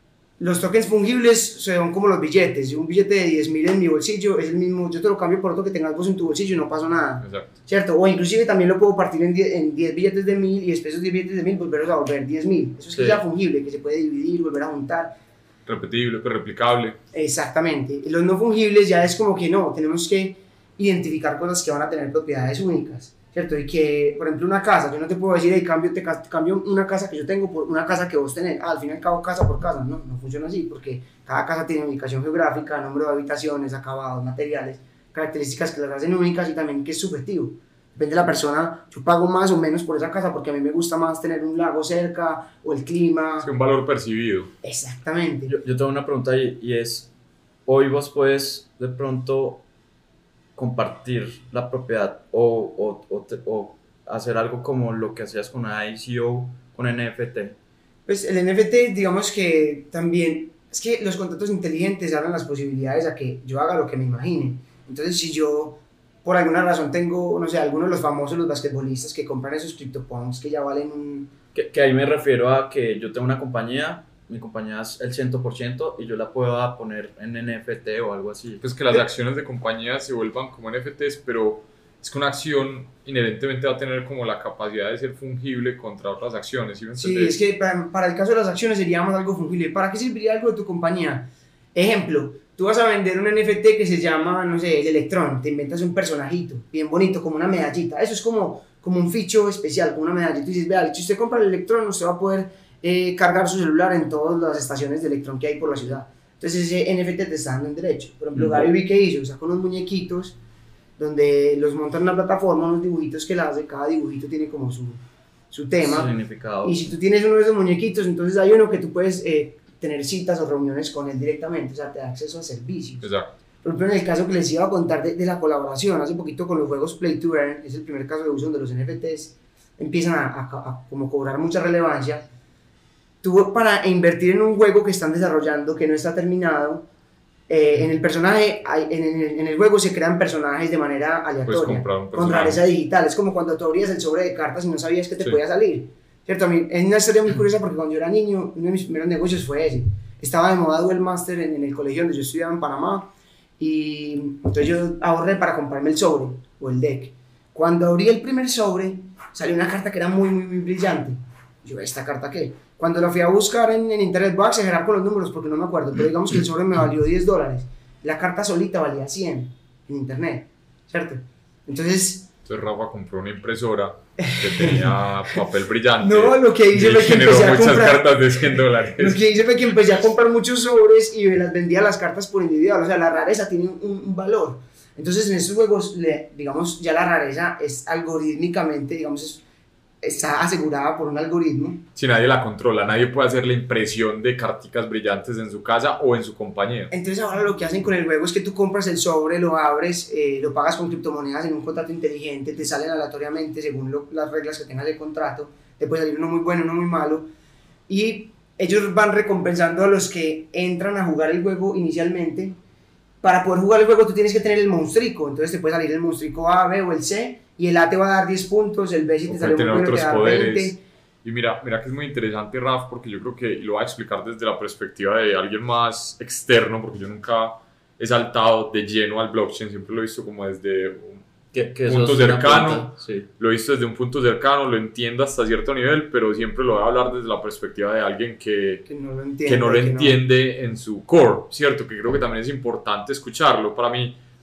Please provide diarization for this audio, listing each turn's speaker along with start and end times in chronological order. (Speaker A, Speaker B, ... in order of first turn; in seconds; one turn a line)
Speaker A: 0.4-15.2
Speaker B: 7.2-7.5
Speaker C: 12.9-13.2
Speaker B: 15.7-17.0
Speaker A: 17.1-43.5
Speaker B: 43.4-44.5
Speaker A: 44.6-45.5
Speaker C: 45.5-47.1
Speaker C: 47.7-49.6
Speaker C: 50.5-57.5
Speaker A: 58.0-71.3
Speaker C: 71.5-79.0
Speaker B: 78.6-87.4
Speaker A: 86.9-110.4
Speaker C: 108.3-108.7
Speaker A: 111.0-123.1
Speaker C: 115.8-116.8
Speaker B: 123.0-123.3
Speaker A: 123.6-132.3
Speaker A: 133.2-136.9
Speaker A: 137.5-172.3
Speaker B: 141.4-142.6
Speaker B: 172.4-179.2
Speaker A: 174.2-175.4
Speaker A: 176.0-189.4
Speaker A: 190.0-191.8
Speaker B: 191.9-196.9
Speaker A: 196.9-207.3
Speaker A: 207.9-212.6
Speaker A: 213.2-220.8
Speaker B: 219.3-238.8
Speaker C: 231.5-233.3
Speaker A: 238.8-240.2
Speaker B: 239.4-244.2